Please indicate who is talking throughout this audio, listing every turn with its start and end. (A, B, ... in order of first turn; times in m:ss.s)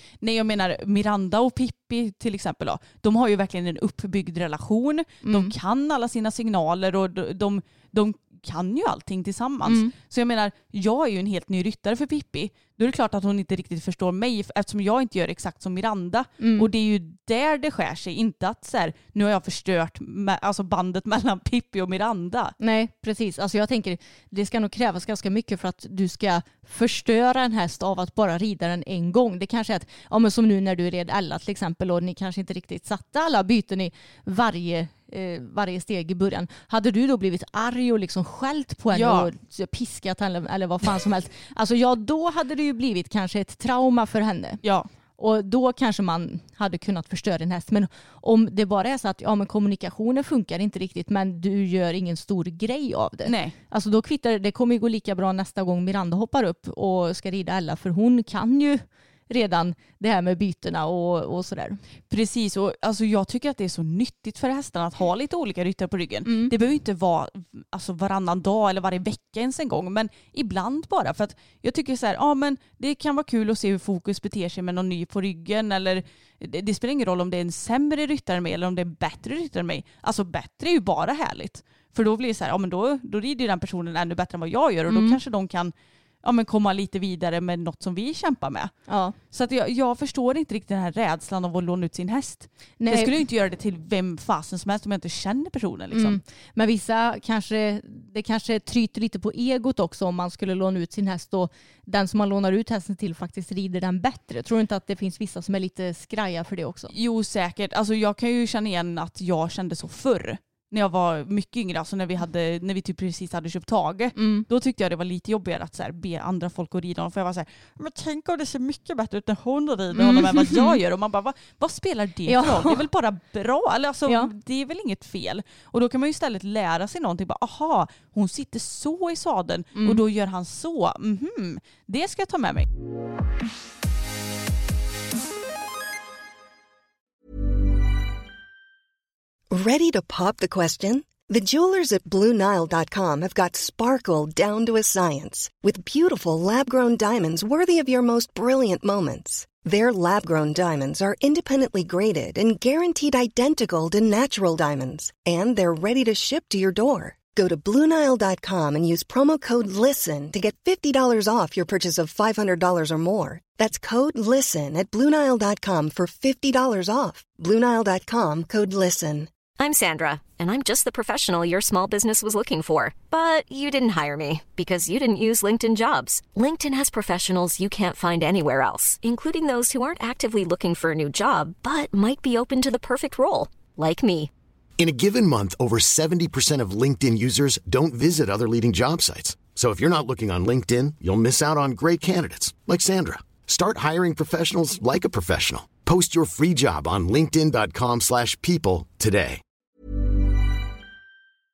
0:00.2-0:22.6 A
0:05.2-0:05.5 B
0:09.6-0:09.9 B
0:16.4-0:16.7 B
0:22.6-0:44.6 B
0:38.9-0:39.3 A
0:44.6-0:44.9 A
0:45.2-1:01.8 B
0:53.2-0:53.6 A
1:02.1-1:28.7 A
1:06.2-1:06.5 B
1:24.9-1:25.2 B
1:28.9-1:29.2 B
1:29.3-1:36.2 A
1:32.8-1:33.2 B
1:35.9-1:46.9 B
1:46.9-2:12.7 A
1:54.2-1:54.5 B
1:59.9-2:00.8 B
2:02.3-2:02.8 B
2:09.8-2:10.0 B
2:19.5-2:49.3 C
2:49.6-3:04.3 D
3:04.8-3:19.4 E